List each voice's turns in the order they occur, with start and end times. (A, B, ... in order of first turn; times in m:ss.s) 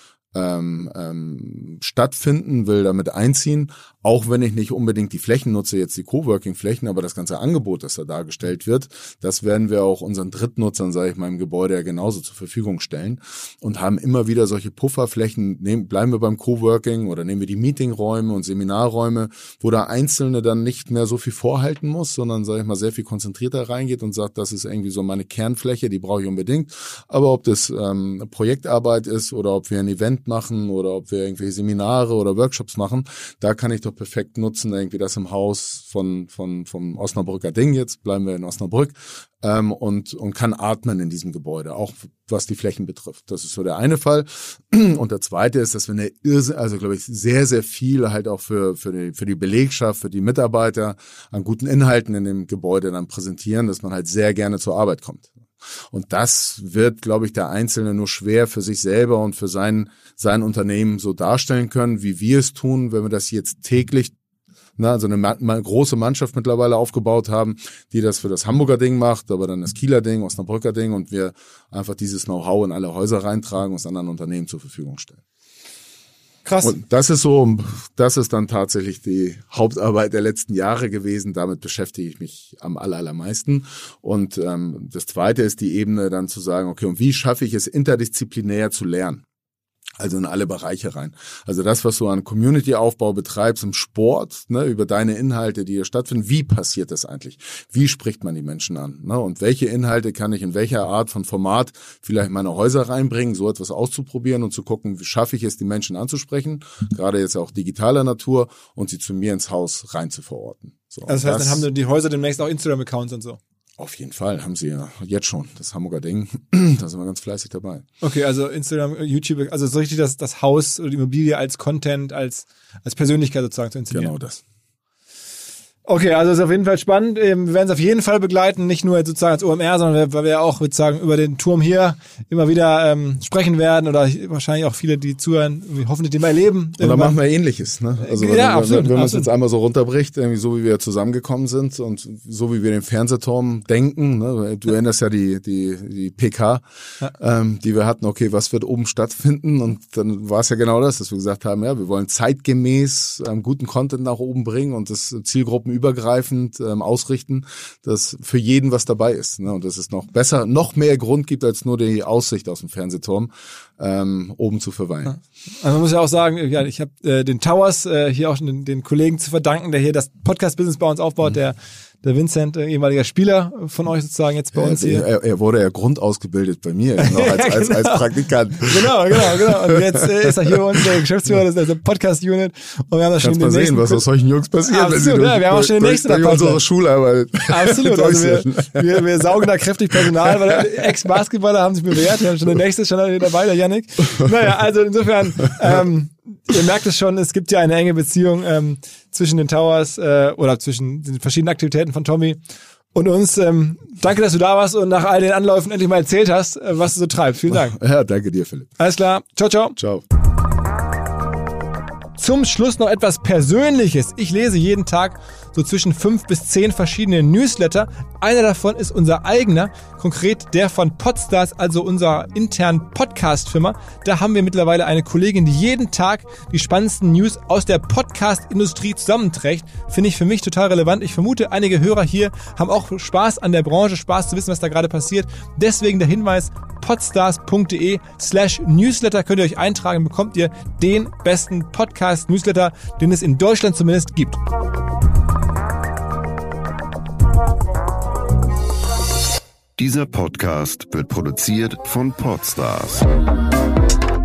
0:00.3-0:55.3 A
0:55.9-1:04.1 A
1:04.8-1:15.2 A
1:16.4-1:16.7 B
1:16.6-1:29.2 A
1:30.0-1:51.7 A
1:51.1-1:53.4 B
1:53.8-1:57.8 A
1:58.0-2:04.1 B
2:03.9-2:04.4 A
2:05.9-2:17.2 B
2:16.8-2:45.2 A
2:18.0-2:19.3 B
2:45.0-2:55.0 B
2:54.5-3:00.8 A
2:57.0-2:58.1 B
2:58.6-3:04.0 B
3:03.2-3:09.0 A
3:04.6-3:06.6 B
3:07.5-3:22.4 B
3:22.9-3:27.8 B
3:27.5-3:28.7 A
3:28.8-3:29.8 B
3:29.8-3:30.0 A
3:32.2-4:04.4 B
4:09.8-4:13.1 C